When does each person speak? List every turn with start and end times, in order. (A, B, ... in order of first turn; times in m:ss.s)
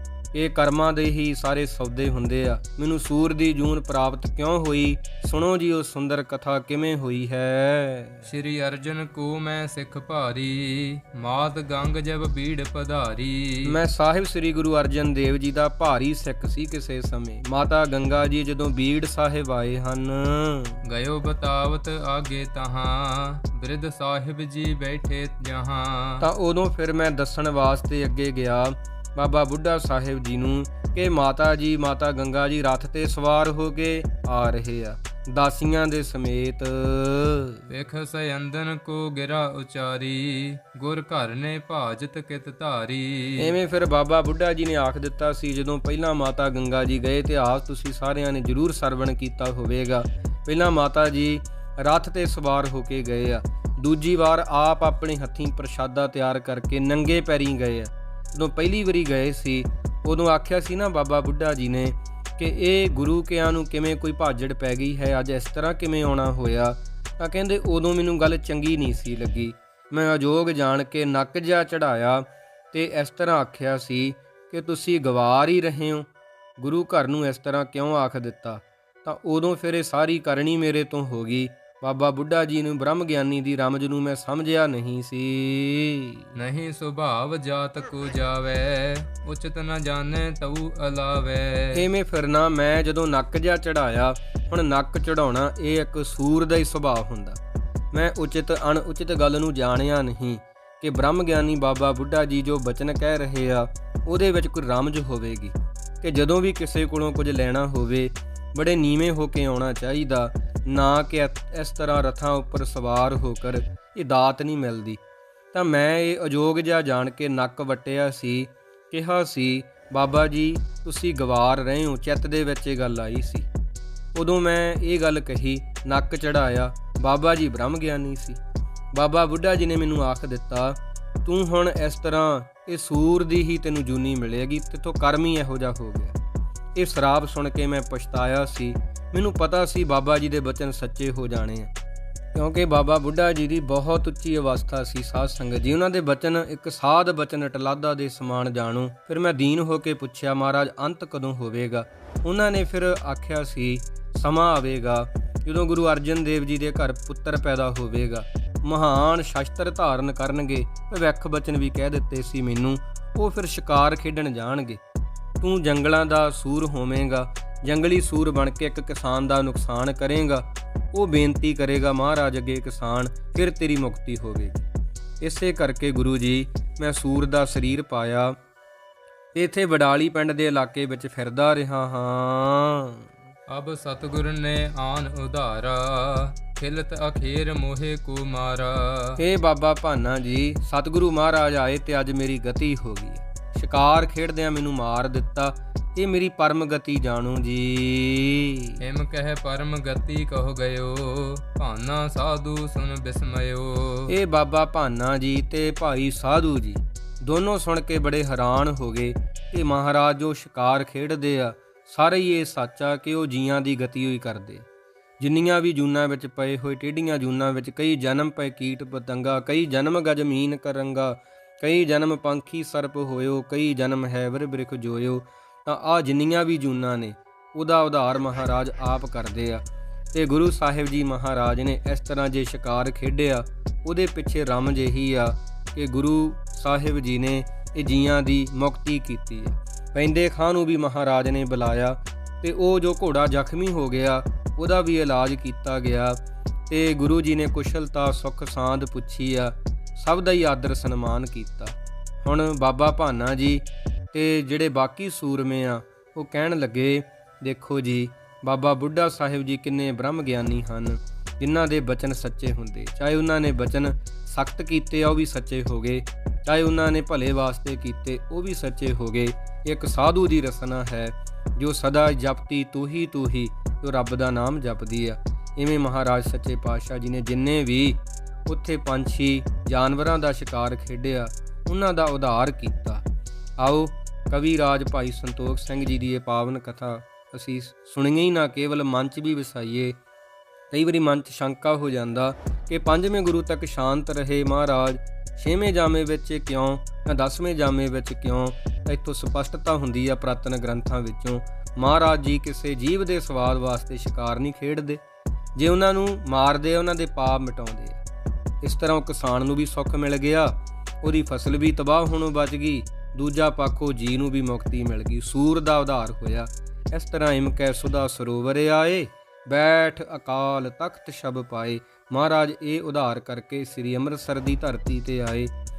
0:00.3-0:08.3 A
0:08.2-0:13.8 B
0:13.6-0:20.8 A
0:20.8-0:26.2 B
0:26.2-0:37.7 A
0:37.7-0:43.5 B
0:43.4-1:26.2 A
1:26.4-1:31.8 B
1:31.7-1:37.4 A
1:37.9-1:55.0 A
1:55.5-2:03.5 A
2:04.1-2:08.4 A
2:08.9-2:16.2 A
2:16.7-2:21.7 A
2:22.3-2:44.8 A
2:45.4-2:54.6 A
2:55.2-2:58.4 A
2:59.3-3:03.0 A
3:03.5-3:09.2 B
3:09.2-3:18.8 A
3:18.8-3:24.1 B
3:24.1-3:34.6 A
3:35.2-4:43.0 A
4:43.6-4:50.0 A
4:50.7-5:05.0 A
5:05.6-5:08.0 A
5:08.6-5:25.5 A